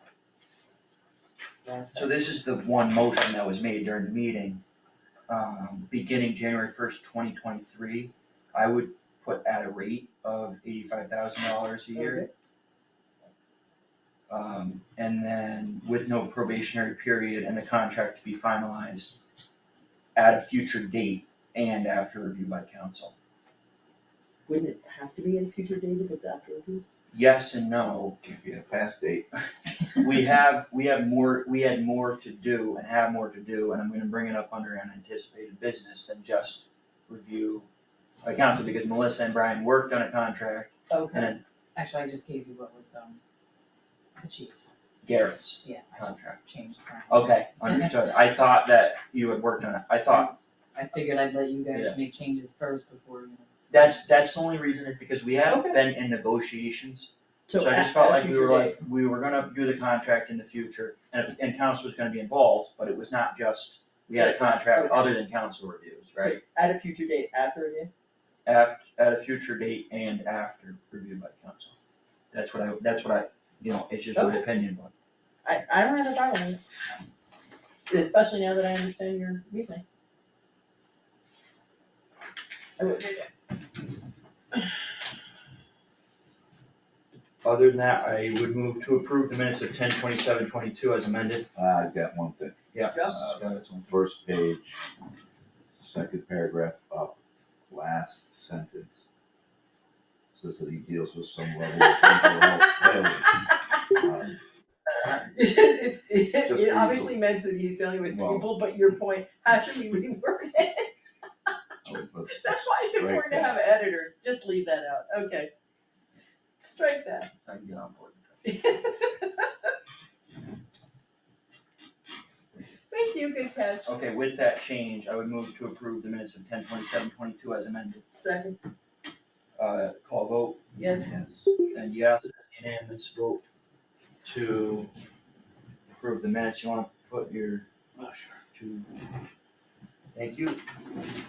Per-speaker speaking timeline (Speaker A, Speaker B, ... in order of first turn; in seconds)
Speaker A: 1.6-2.4, 11.9-12.3, 24.5-26.8, 40.9-41.3, 55.5-55.8, 57.5-58.8, 64.1-65.1, 66.2-67.9, 74.1-74.4, 75.4-76.6, 77.9-79.8, 82.8-83.3, 92.9-93.3, 101.8-102.7, 105.3-110.9, 112.3-115.5, 116.6-117.3, 118.4-119.4, 122.9-123.9, 128.1-128.6, 130.8-131.1
Speaker B: 1.9-4.6, 5.3-12.3, 14.3-19.1, 20.1-23.1, 27.1-28.2, 30.0-37.7, 38.2-41.4, 45.0-46.4, 47.1-50.3, 51.7-52.0, 53.7-66.4, 68.5-71.7, 72.3-74.9, 87.4-91.5, 92.7-93.9, 105.0-105.3, 106.5-107.1, 117.4-118.6, 123.8-128.1, 129.6-130.6, 131.7-133.4, 134.2-134.9, 136.0-137.7, 138.5-138.9, 140.1-140.6
Speaker C: 28.2-29.3, 91.5-92.6, 93.8-94.8, 95.7-97.2, 97.7-99.1, 100.3-104.4, 108.1-108.5, 111.8-113.6, 131.0-131.5, 138.0-138.2
Speaker D: 41.7-43.2, 44.1-44.8, 45.6-48.0, 50.1-53.5